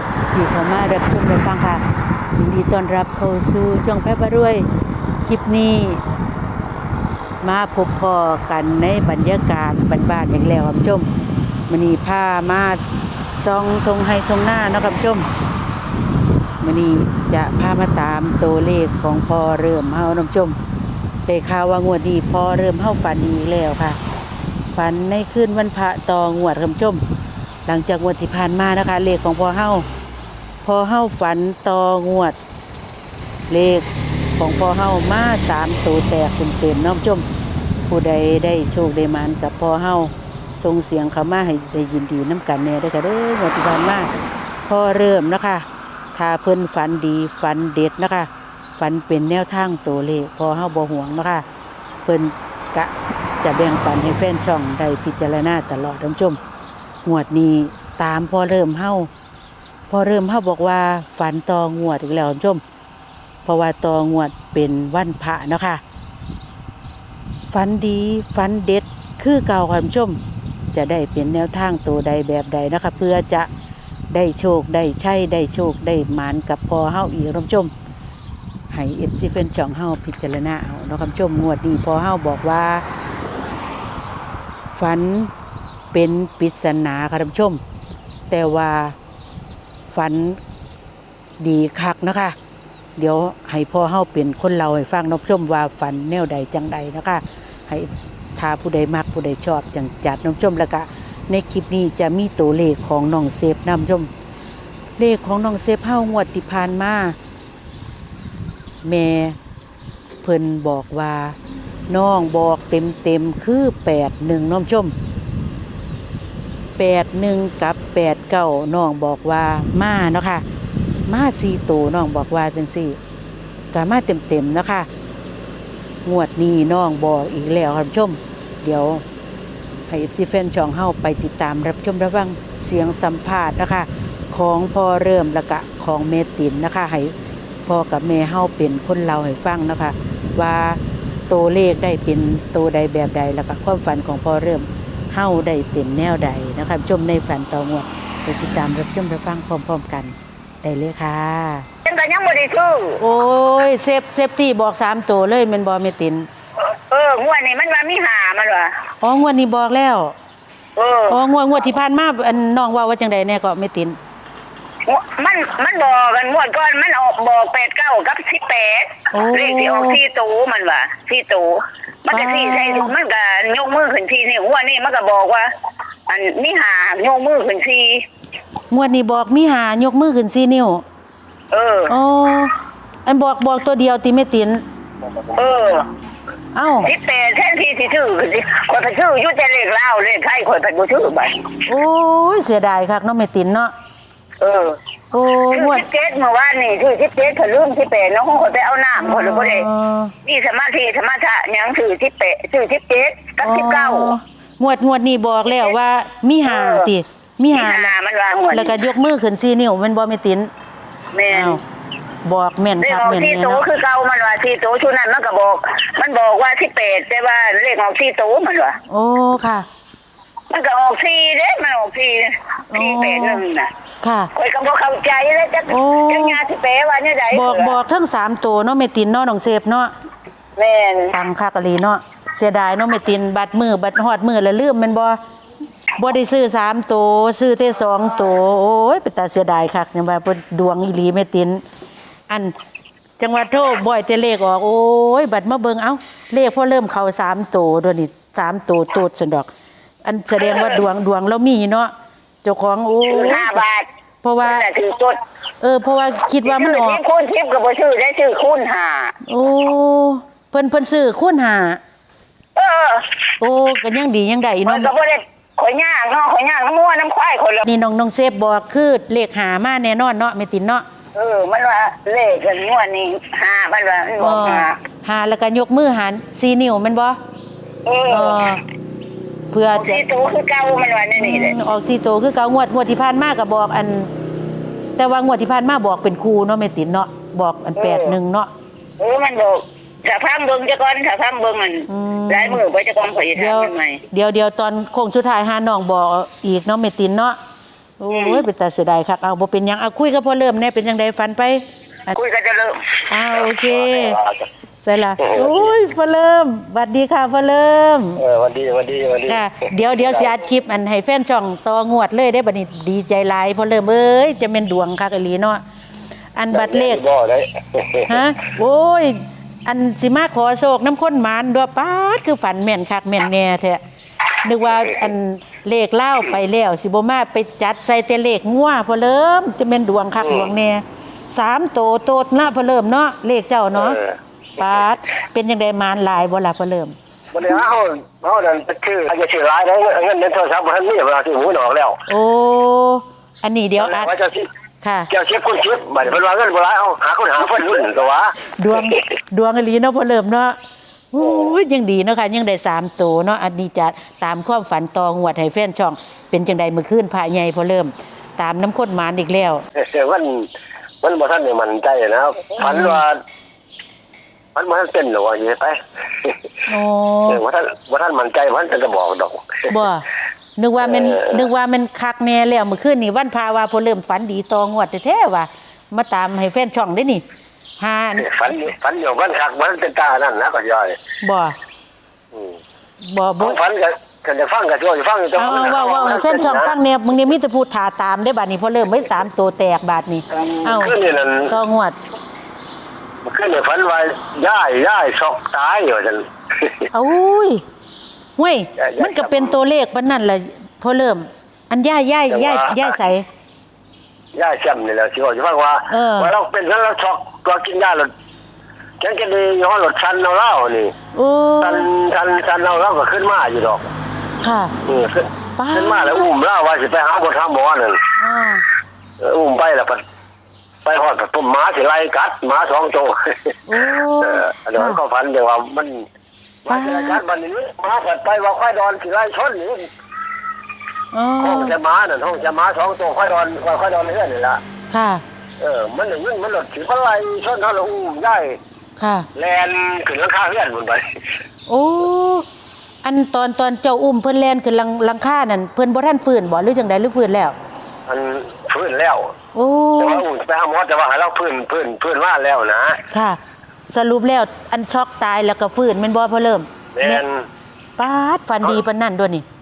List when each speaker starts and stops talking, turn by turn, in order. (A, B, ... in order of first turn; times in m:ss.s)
0:00.3-0:01.8 A
0:02.3-0:04.7 A
0:05.2-0:06.0 A
0:07.4-0:11.1 A
0:11.7-0:12.8 A
0:13.4-0:15.2 A
0:16.6-0:20.6 A
0:21.2-0:24.0 A
0:24.7-0:27.0 A
0:27.6-0:29.8 A
0:30.6-0:32.4 A
0:33.5-0:37.2 A
0:37.9-0:44.1 A
0:44.7-0:51.4 A
0:52.0-0:56.4 A
0:57.0-0:59.1 A
0:59.9-1:02.6 A
1:03.4-1:05.8 A
1:07.5-1:10.2 A
1:10.7-1:13.5 A
1:14.1-1:17.7 A
1:18.7-1:22.8 A
1:24.7-1:25.3 A
1:25.9-1:27.6 A
1:28.3-1:29.0 A
1:29.9-1:30.4 A
1:31.4-1:32.4 A
1:33.0-1:44.1 A
1:45.0-1:47.2 A
1:48.8-1:49.4 A
1:50.2-1:51.4 A
1:51.9-1:54.9 A
1:56.8-2:00.4 A
2:01.1-2:03.0 A
2:03.7-2:04.9 A
2:06.0-2:09.0 A
2:09.9-2:17.1 A
2:17.6-2:31.6 A
2:31.8-2:33.0 B
2:33.0-2:36.3 A
2:36.7-2:38.8 B
2:39.0-2:40.1 A
2:40.8-2:41.2 B
2:41.1-2:44.0 A
2:44.8-2:55.5 B
2:49.1-2:50.0 A
2:52.1-2:52.9 A
2:56.1-2:58.0 B
2:58.7-3:00.8 A
3:01.5-3:01.9 B
3:01.9-3:02.5 A
3:03.0-3:04.6 A
3:05.3-3:05.9 B
3:06.5-3:06.9 A
3:06.8-3:11.6 B
3:11.7-3:13.7 A
3:14.4-3:14.8 B
3:15.1-3:15.8 A
3:15.5-3:19.7 B
3:19.0-3:20.1 A
3:20.2-3:24.1 B
3:23.4-3:27.9 A
3:25.5-3:25.7 B
3:26.4-3:26.9 B
3:27.5-3:28.8 B
3:28.5-3:30.5 A
3:31.1-3:31.6 B
3:31.3-3:31.6 A
3:32.2-3:33.6 A
3:32.8-3:38.8 B
3:38.9-3:39.6 A
3:40.5-3:43.7 B
3:42.7-3:43.4 A
3:44.0-3:44.3 A
3:44.3-3:47.8 B
3:45.7-3:46.4 A
3:47.3-3:49.9 A
3:50.6-3:51.2 B
3:51.1-3:55.2 A
3:56.0-4:01.6 A
4:02.3-4:02.5 A
4:03.2-4:09.5 A
4:10.0-4:11.9 A
4:10.4-4:10.8 B
4:12.4-4:13.6 A
4:13.0-4:13.9 B
4:14.2-4:14.7 A
4:14.4-4:15.2 B
4:15.6-4:17.0 A
4:16.4-4:19.2 B
4:19.2-4:21.8 A
4:22.6-4:23.2 B
4:23.4-4:24.9 A
4:24.6-4:27.6 B
4:27.6-4:30.8 A
4:31.1-4:34.8 B
4:34.2-4:37.2 A
4:37.8-4:38.5 B
4:38.0-4:38.6 A
4:39.5-4:40.0 A
4:39.7-4:41.6 B
4:41.2-4:44.1 A
4:45.0-4:48.5 A
4:47.8-4:48.2 B
4:49.0-4:54.0 B
4:51.9-4:52.6 A
4:53.3-4:57.4 A
4:58.0-5:02.1 A
4:58.1-4:58.4 B
5:02.1-5:03.1 B
5:03.1-5:04.2 A
5:03.3-5:04.5 C
5:04.8-5:08.2 A
5:05.2-5:05.7 C
5:08.2-5:10.3 C
5:09.2-5:15.6 A
5:16.4-5:17.0 A
5:16.5-5:18.2 C
5:18.1-5:23.8 A
5:24.4-5:34.0 A
5:30.2-5:30.5 C
5:33.7-5:34.2 C
5:34.6-5:36.9 A
5:37.3-5:42.0 C
5:42.1-5:44.1 A
5:43.8-5:44.5 C
5:44.8-5:45.1 A
5:45.1-5:48.3 C
5:48.6-5:50.6 A
5:51.1-5:59.6 A
5:51.2-5:51.6 C
5:59.7-6:00.5 C
6:01.0-6:03.2 C
6:02.6-6:03.0 A
6:04.5-6:06.5 C
6:06.7-6:07.4 A
6:07.3-6:09.6 C
6:09.7-6:10.0 A
6:10.6-6:17.2 A
6:10.8-6:11.5 C
6:17.8-6:18.3 A
6:18.2-6:21.0 C
6:21.2-6:21.6 A
6:22.3-6:22.6 C
6:23.0-6:23.6 A
6:23.4-6:26.7 C
6:25.4-6:31.0 A
6:30.3-6:31.6 C
6:31.5-6:32.0 A
6:33.2-6:36.9 C
6:36.9-6:37.6 A
6:38.4-6:43.2 A
6:38.8-6:39.6 C
6:42.3-6:42.9 C
6:44.3-6:48.1 C
6:45.9-6:46.3 A
6:49.0-6:50.9 C
6:51.1-6:51.9 A
6:51.6-6:53.8 C
6:54.4-6:54.7 A
6:54.8-6:58.0 C
6:55.6-6:56.2 A
6:58.2-6:58.6 A
6:59.2-7:00.0 C
7:00.8-7:03.5 C
7:03.7-7:05.0 A
7:04.2-7:06.0 C
7:06.6-7:09.8 C
7:06.7-7:07.2 A
7:11.1-7:11.8 A
7:11.4-7:14.6 C
7:14.9-7:15.2 A
7:15.6-7:18.6 C
7:19.0-7:19.3 A
7:19.3-7:21.0 C
7:21.7-7:22.4 A
7:23.0-7:27.5 A
7:28.1-7:29.3 C
7:29.5-7:30.2 A
7:30.0-7:33.0 C
7:33.1-7:37.2 A
7:36.9-7:37.4 C
7:38.0-7:39.4 A